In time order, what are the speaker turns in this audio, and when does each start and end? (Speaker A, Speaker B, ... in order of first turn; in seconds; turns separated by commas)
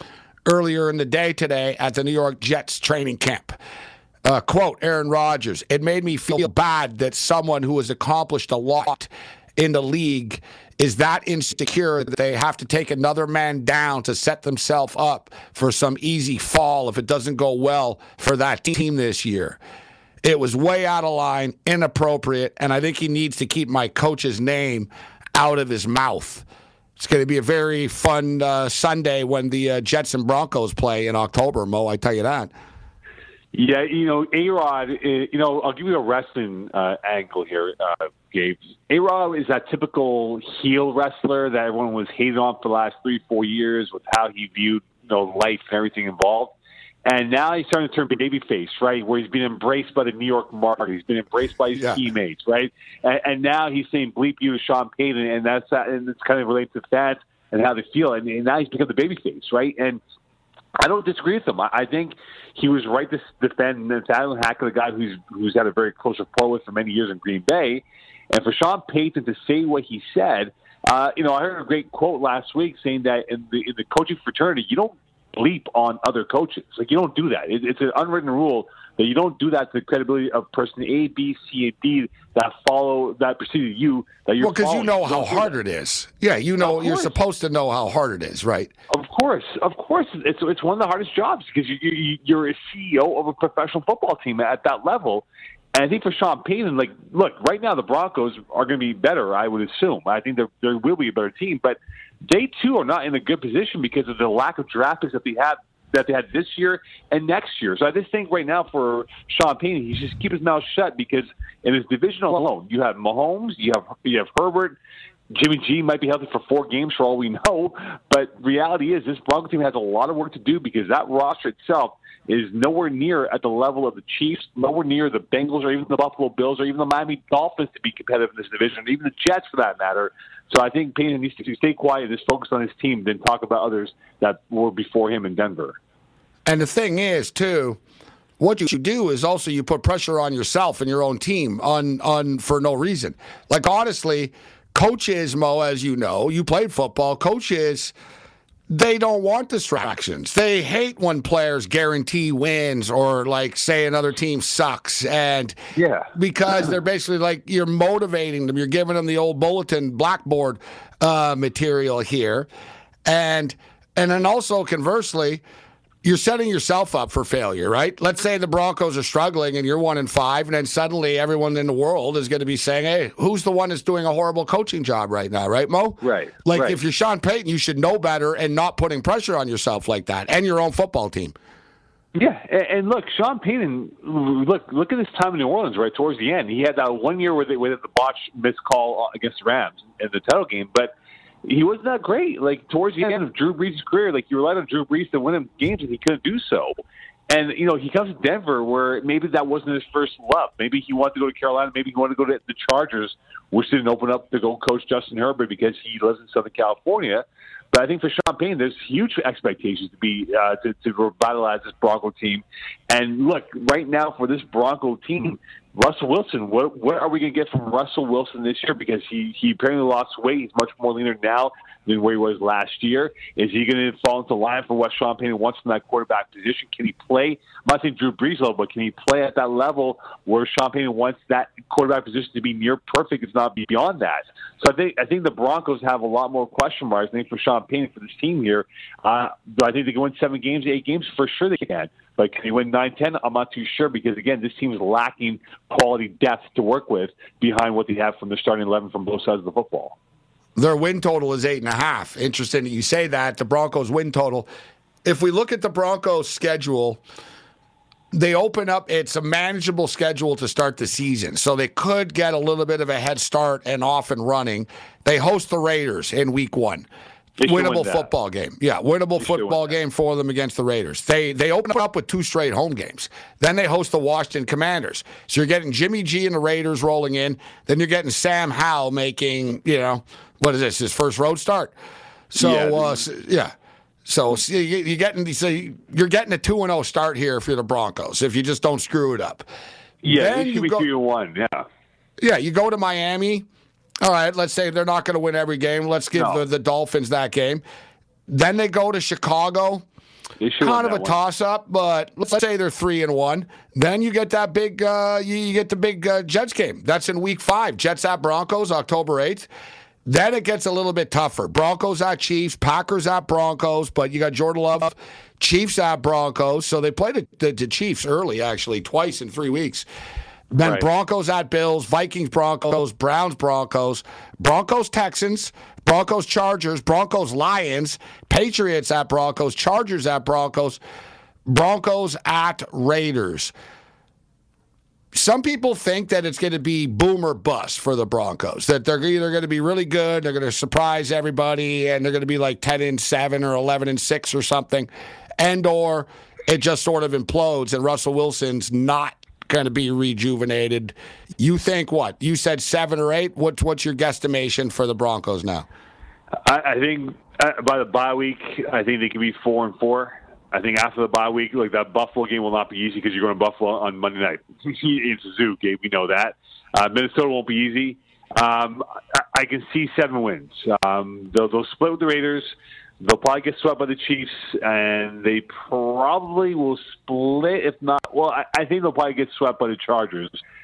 Speaker A: 0.5-3.5, Speaker A: 4.2-19.6, Speaker A: 20.2-26.4, Speaker A: 27.0-32.5, Speaker B: 33.5-46.5, Speaker B: 47.0-60.0, Speaker B: 60.8-85.5, Speaker A: 84.4-88.7, Speaker B: 86.6-87.1, Speaker B: 88.9-114.8, Speaker B: 115.3-135.8, Speaker A: 136.4-137.8, Speaker A: 138.4-147.9, Speaker A: 148.7-155.5, Speaker B: 155.8-156.7, Speaker A: 156.1-162.5, Speaker A: 163.0-165.4, Speaker A: 166.0-181.3, Speaker B: 176.0-176.8, Speaker B: 182.1-190.9, Speaker B: 191.4-196.8, Speaker B: 197.3-250.0, Speaker A: 250.6-254.5, Speaker A: 255.0-257.0, Speaker A: 258.1-266.9, Speaker B: 267.4-268.1, Speaker A: 267.4-281.7, Speaker B: 269.2-269.7, Speaker A: 282.3-283.5, Speaker B: 282.4-283.0, Speaker A: 284.1-289.4, Speaker B: 290.0-291.7, Speaker A: 290.1-290.9, Speaker A: 292.2-293.4, Speaker A: 294.0-297.6, Speaker B: 296.1-296.4, Speaker A: 298.3-299.8, Speaker B: 300.4-301.2, Speaker A: 300.6-309.5, Speaker A: 310.1-319.8, Speaker A: 320.5-330.8, Speaker B: 320.6-320.9, Speaker A: 331.5-333.5, Speaker A: 335.1-355.7, Speaker B: 356.4-380.3